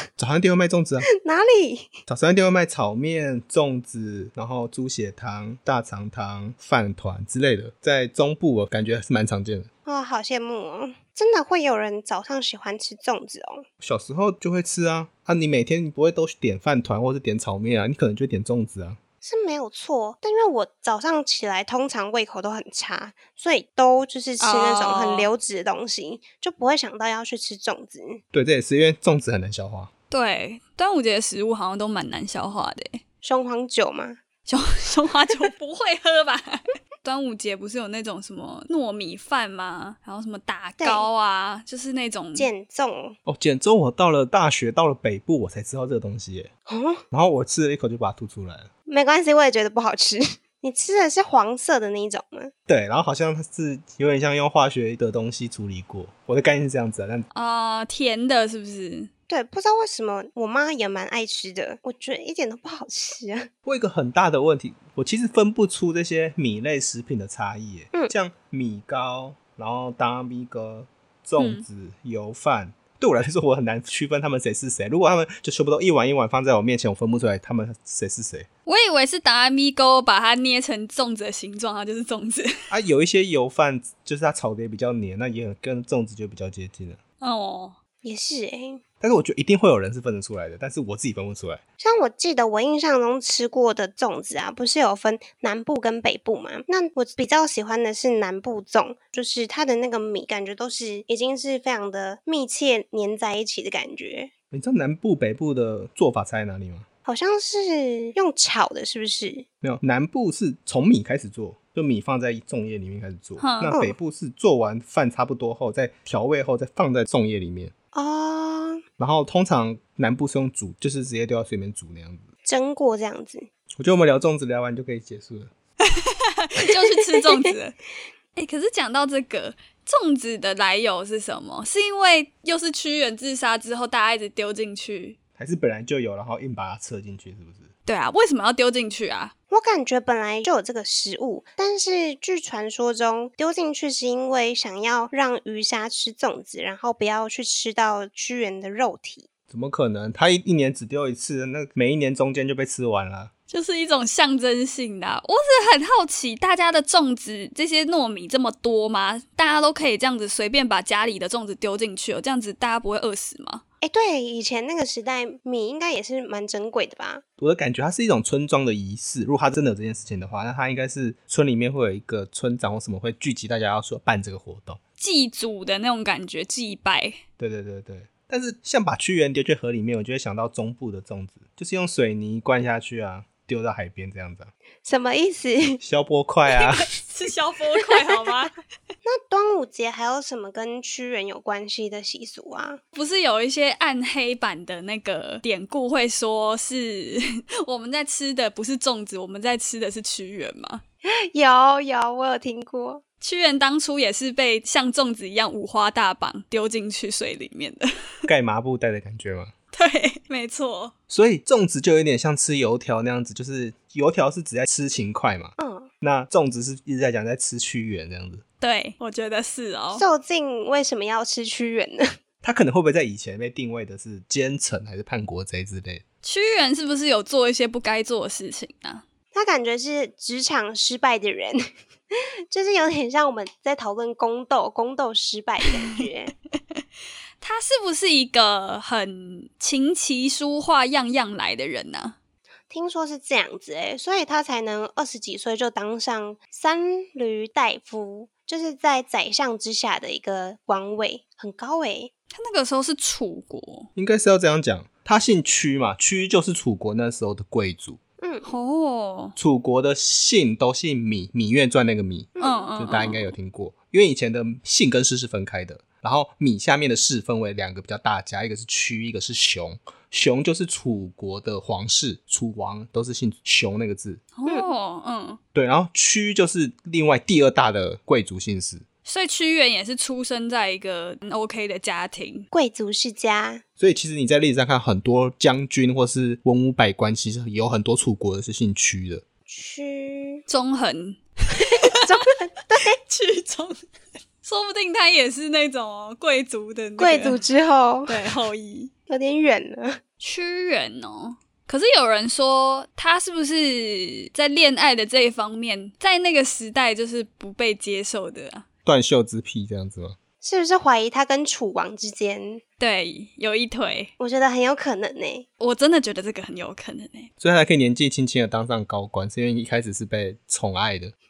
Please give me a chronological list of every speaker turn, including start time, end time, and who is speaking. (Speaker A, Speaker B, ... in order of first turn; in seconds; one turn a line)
Speaker A: 0.2-1.1
Speaker B: 1.2-1.9
Speaker A: 2.1-9.7
Speaker B: 9.8-13.7
Speaker A: 13.8-19.0
Speaker B: 19.2-28.2
Speaker C: 24.4-25.3
Speaker A: 28.3-29.9
Speaker C: 30.1-33.0
Speaker B: 33.2-34.2
Speaker C: 34.5-42.5
Speaker B: 40.8-41.0
Speaker B: 42.3-43.2
Speaker A: 43.2-46.5
Speaker B: 46.7-47.0
Speaker A: 47.1-48.7
Speaker B: 48.9-52.5
Speaker A: 52.7-57.2
Speaker C: 57.3-59.1
Speaker B: 59.3-63.5
Speaker A: 63.6-78.5
Speaker C: 71.4-71.6
Speaker C: 78.7-82.7
Speaker A: 82.7-87.0
Speaker C: 87.2-87.8
Speaker B: 88.0-88.8
Speaker A: 89.0-91.6
Speaker B: 91.8-104.3
Speaker A: 104.5-106.8
Speaker B: 107.0-109.5
Speaker A: 109.6-117.7
Speaker C: 113.4-113.7
Speaker B: 113.7-113.9
Speaker B: 117.9-118.8
Speaker A: 119.0-122.3
Speaker B: 122.4-123.5
Speaker A: 123.8-125.5
Speaker C: 126.0-127.8
Speaker C: 128.3-135.2
Speaker A: 135.4-137.7
Speaker C: 137.8-139.3
Speaker B: 139.5-149.3
Speaker A: 149.5-153.3
Speaker C: 153.5-163.6
Speaker B: 163.8-167.2
Speaker A: 167.4-174.8
Speaker C: 175.0-177.2
Speaker A: 177.4-184.5
Speaker B: 184.8-185.8
Speaker A: 185.8-186.9
Speaker C: 186.5-188.5
Speaker B: 189.0-192.8
Speaker C: 192.9-200.8
Speaker B: 201.0-203.0
Speaker C: 203.2-207.9
Speaker A: 208.2-209.5
Speaker C: 209.7-210.9
Speaker A: 211.1-218.4
Speaker B: 215.6-215.9
Speaker C: 218.6-220.0
Speaker B: 219.9-222.2
Speaker A: 222.4-226.0
Speaker C: 226.2-229.0
Speaker B: 229.3-231.6
Speaker B: 232.1-236.3
Speaker C: 237.4-242.2
Speaker B: 242.7-252.1
Speaker C: 252.3-253.9
Speaker A: 253.9-258.0
Speaker B: 258.2-258.5
Speaker C: 258.4-259.4
Speaker A: 259.4-274.2
Speaker B: 262.4-262.7
Speaker C: 262.4-263.3
Speaker C: 274.4-275.4
Speaker A: 275.5-278.8
Speaker C: 279.0-282.5
Speaker B: 282.5-283.6
Speaker A: 283.8-289.2
Speaker B: 289.5-290.4
Speaker C: 290.5-292.0
Speaker B: 291.9-293.0
Speaker C: 292.8-293.8
Speaker C: 294.4-297.4
Speaker B: 297.0-298.2
Speaker C: 298.1-298.9
Speaker B: 299.1-300.0
Speaker C: 300.2-308.6
Speaker A: 308.8-310.2
Speaker B: 310.4-312.6
Speaker C: 312.8-314.1
Speaker B: 314.2-315.4
Speaker C: 315.6-317.3
Speaker A: 317.4-321.1